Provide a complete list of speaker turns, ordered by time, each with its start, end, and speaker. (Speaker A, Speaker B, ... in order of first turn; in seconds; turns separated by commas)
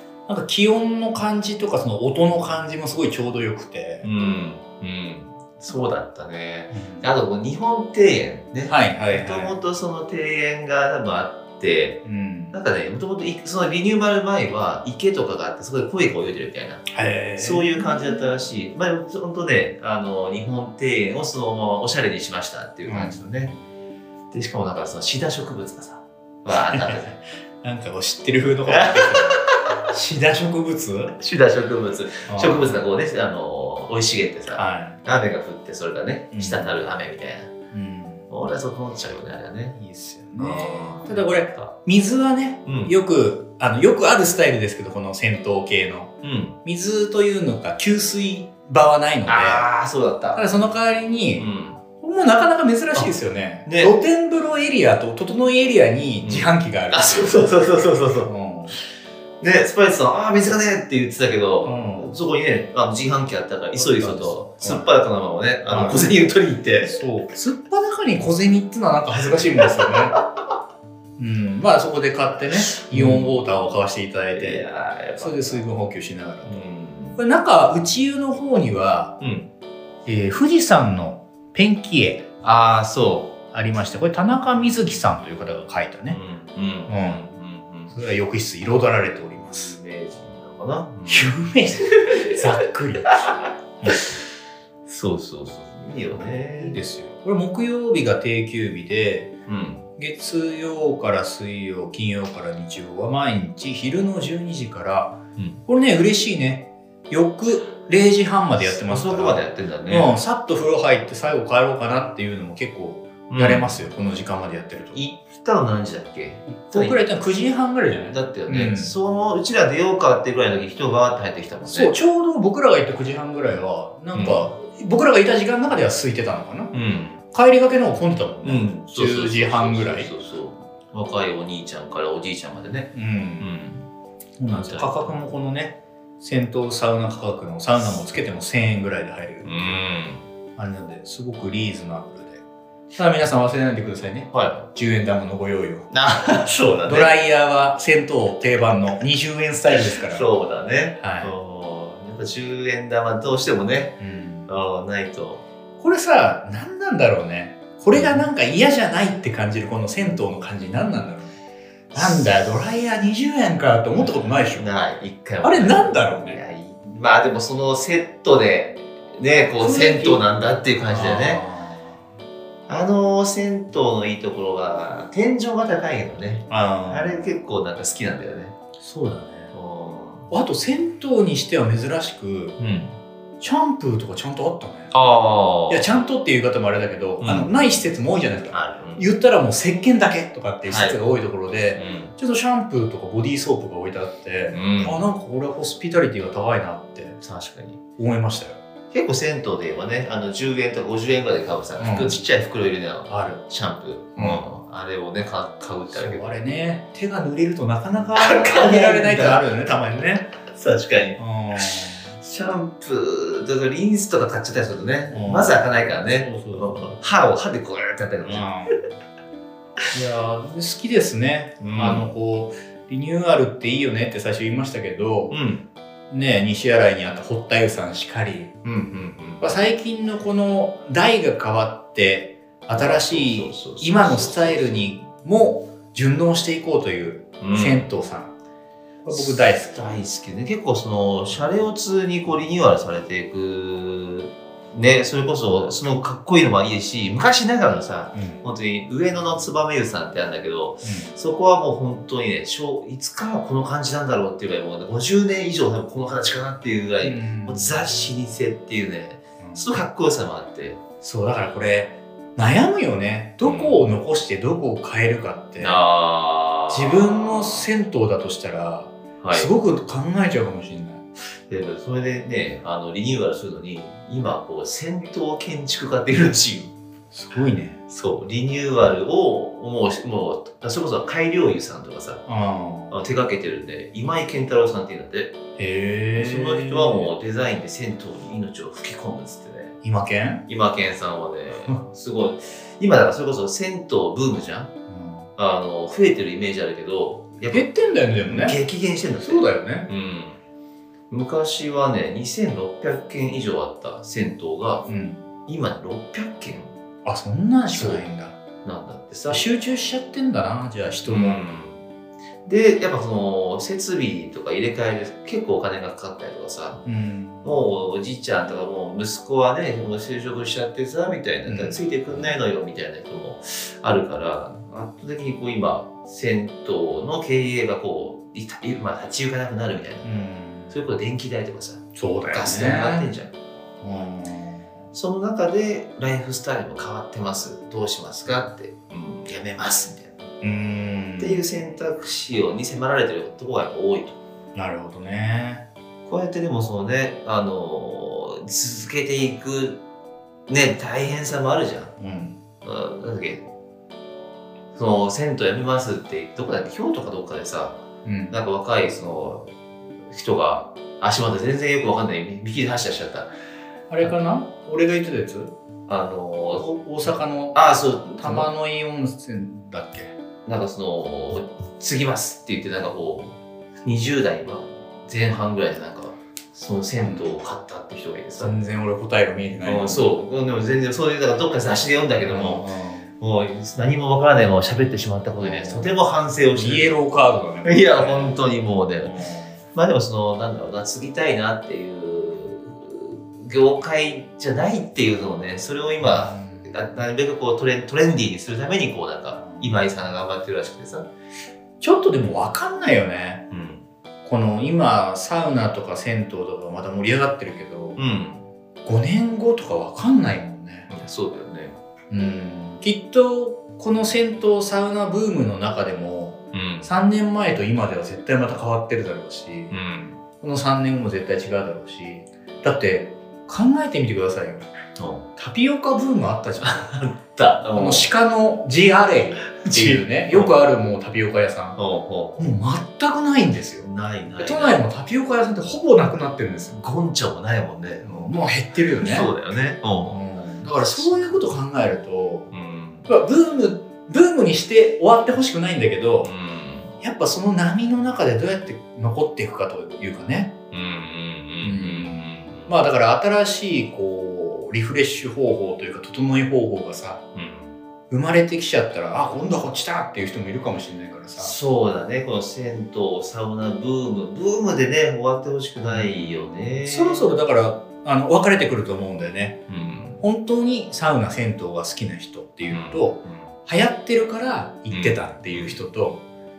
Speaker A: 0.3-4.1, Speaker B: 4.0-23.6, Speaker A: 6.7-7.1, Speaker A: 8.7-9.6, Speaker A: 12.1-12.5, Speaker A: 16.9-17.7, Speaker A: 22.9-23.2, Speaker B: 24.3-27.1, Speaker A: 26.7-31.2, Speaker B: 28.7-29.5, Speaker B: 31.2-37.5, Speaker A: 32.3-32.8, Speaker A: 34.5-35.0, Speaker A: 36.3-36.8, Speaker A: 37.7-38.2, Speaker B: 38.3-39.8, Speaker A: 39.8-49.7, Speaker B: 40.4-41.8, Speaker B: 42.7-43.0, Speaker B: 46.2-46.6, Speaker B: 49.3-50.6, Speaker A: 50.3-57.5, Speaker B: 51.4-51.8, Speaker B: 53.7-54.0, Speaker B: 56.2-58.3, Speaker A: 58.2-58.8, Speaker B: 59.4-67.0, Speaker A: 61.6-62.1, Speaker A: 63.8-64.9, Speaker A: 65.7-66.1, Speaker A: 66.8-70.2, Speaker B: 69.6-70.2, Speaker A: 71.2-74.7, Speaker B: 72.7-73.4, Speaker B: 74.3-75.6, Speaker A: 75.2-76.6, Speaker B: 76.5-77.2, Speaker A: 77.2-79.2, Speaker B: 79.2-79.5, Speaker A: 80.1-82.3, Speaker B: 82.4-83.4, Speaker A: 83.5-86.2, Speaker B: 86.1-88.0, Speaker A: 86.9-87.2, Speaker A: 87.9-89.8, Speaker B: 89.5-91.3, Speaker A: 91.1-94.1, Speaker B: 91.8-92.5, Speaker B: 93.1-93.4, Speaker B: 94.9-96.8, Speaker A: 96.2-99.3, Speaker B: 99.5-99.8, Speaker A: 100.0-115.0, Speaker B: 105.4-105.6, Speaker B: 108.6-110.1, Speaker B: 113.3-113.8, Speaker B: 114.9-117.0, Speaker A: 116.6-118.9, Speaker B: 118.1-122.0, Speaker A: 121.7-126.7, Speaker B: 124.1-124.5, Speaker B: 126.7-127.2, Speaker A: 127.3-130.1, Speaker B: 128.4-133.9, Speaker A: 132.9-133.5, Speaker A: 134.4-139.8, Speaker B: 134.5-135.2, Speaker B: 139.4-140.2, Speaker A: 140.6-142.4, Speaker A: 142.9-145.9, Speaker B: 144.3-144.7, Speaker B: 145.9-147.1, Speaker A: 146.9-150.3, Speaker B: 149.7-155.4, Speaker A: 151.0-151.3, Speaker A: 154.0-154.5, Speaker A: 155.8-161.3, Speaker B: 157.9-158.3, Speaker A: 161.9-164.7, Speaker B: 162.0-162.2, Speaker B: 164.0-171.4, Speaker A: 165.4-166.4, Speaker A: 169.6-170.2, Speaker A: 170.9-172.0, Speaker B: 172.7-178.6, Speaker A: 176.5-177.3, Speaker A: 178.8-179.5, Speaker B: 179.5-180.3, Speaker A: 180.3-182.6, Speaker B: 182.6-183.0, Speaker A: 183.4-184.9, Speaker B: 184.9-186.0, Speaker A: 185.7-197.2, Speaker B: 187.2-187.5, Speaker B: 188.5-189.1, Speaker B: 190.7-191.0, Speaker B: 191.8-192.2, Speaker B: 194.5-195.0, Speaker B: 197.2-197.8, Speaker A: 198.0-198.6, Speaker B: 198.9-206.4, Speaker A: 201.8-202.2, Speaker A: 203.1-203.4, Speaker A: 204.2-204.4, Speaker A: 205.9-210.3, Speaker B: 208.2-209.4, Speaker B: 210.5-211.2, Speaker A: 211.2-212.1, Speaker B: 212.2-218.8, Speaker A: 215.1-216.8, Speaker A: 218.2-218.7, Speaker A: 219.9-225.4, Speaker B: 221.6-222.1, Speaker B: 225.3-225.7, Speaker A: 226.1-228.6, Speaker B: 228.6-229.5, Speaker A: 229.4-238.3, Speaker B: 232.7-234.9, Speaker B: 237.4-237.9, Speaker A: 239.0-239.8, Speaker B: 239.1-260.8, Speaker A: 248.1-248.4, Speaker A: 250.8-251.1, Speaker A: 257.0-257.8, Speaker A: 261.0-265.8, Speaker B: 263.4-263.8, Speaker B: 265.6-267.7, Speaker A: 266.7-271.0, Speaker B: 269.2-269.5, Speaker B: 271.5-276.7, Speaker A: 277.1-277.8, Speaker B: 277.9-282.2, Speaker A: 282.3-282.9, Speaker B: 282.9-285.4, Speaker A: 285.6-287.1, Speaker B: 286.1-289.8, Speaker A: 289.8-290.5, Speaker B: 290.5-294.7, Speaker A: 294.9-295.3, Speaker B: 295.4-297.7, Speaker A: 297.5-298.6, Speaker B: 298.2-300.4, Speaker A: 299.2-299.9, Speaker B: 301.1-304.9, Speaker A: 304.9-305.2, Speaker B: 305.5-306.7, Speaker A: 307.1-308.4, Speaker B: 307.7-308.1, Speaker B: 308.6-309.4, Speaker A: 309.3-311.4, Speaker B: 311.1-311.8, Speaker B: 312.5-316.9, Speaker A: 316.9-317.5, Speaker B: 317.4-330.1, Speaker A: 321.5-321.8, Speaker A: 330.0-330.8, Speaker B: 330.7-333.4, Speaker A: 332.0-333.1, Speaker A: 333.8-334.7, Speaker B: 334.9-340.2, Speaker A: 340.4-341.4, Speaker B: 341.2-344.2, Speaker A: 344.6-345.6, Speaker B: 346.1-349.8, Speaker B: 350.5-351.9, Speaker A: 352.0-352.4, Speaker B: 352.6-353.5, Speaker B: 354.7-359.5, Speaker A: 358.1-358.4, Speaker B: 360.1-363.3, Speaker A: 363.9-365.5, Speaker B: 365.9-366.7, Speaker A: 366.5-370.1, Speaker B: 367.5-368.5, Speaker B: 370.5-378.6, Speaker A: 377.0-377.3, Speaker A: 378.4-380.1, Speaker B: 379.6-382.6, Speaker A: 382.2-383.1, Speaker B: 383.2-386.9, Speaker A: 385.4-386.0, Speaker A: 386.5-388.4, Speaker B: 387.6-389.2, Speaker A: 389.0-389.6, Speaker B: 389.7-401.1, Speaker A: 396.0-396.7, Speaker A: 399.4-399.8, Speaker A: 401.8-403.5, Speaker B: 403.5-403.8, Speaker A: 404.2-408.0, Speaker B: 408.0-408.5, Speaker A: 408.9-410.9, Speaker B: 410.9-411.8, Speaker A: 412.1-419.8, Speaker B: 416.5-416.9, Speaker B: 419.7-420.2, Speaker A: 420.4-424.7, Speaker B: 425.0-425.3, Speaker A: 425.4-427.0, Speaker B: 426.6-428.1, Speaker A: 427.8-431.8, Speaker B: 429.6-430.6, Speaker B: 431.8-432.5, Speaker A: 432.4-433.9, Speaker B: 433.8-434.8, Speaker A: 434.4-436.8, Speaker B: 436.7-438.4, Speaker A: 438.0-439.3, Speaker B: 439.0-440.2, Speaker A: 440.1-442.5, Speaker B: 442.5-443.1, Speaker A: 443.1-446.3, Speaker B: 446.2-446.9, Speaker A: 447.0-450.6, Speaker B: 450.7-452.8, Speaker A: 451.6-457.2, Speaker B: 457.4-457.8, Speaker A: 458.1-461.6, Speaker B: 461.4-467.3, Speaker A: 465.9-469.6, Speaker B: 469.7-470.2, Speaker A: 470.2-476.2, Speaker B: 472.7-473.5, Speaker B: 474.9-475.8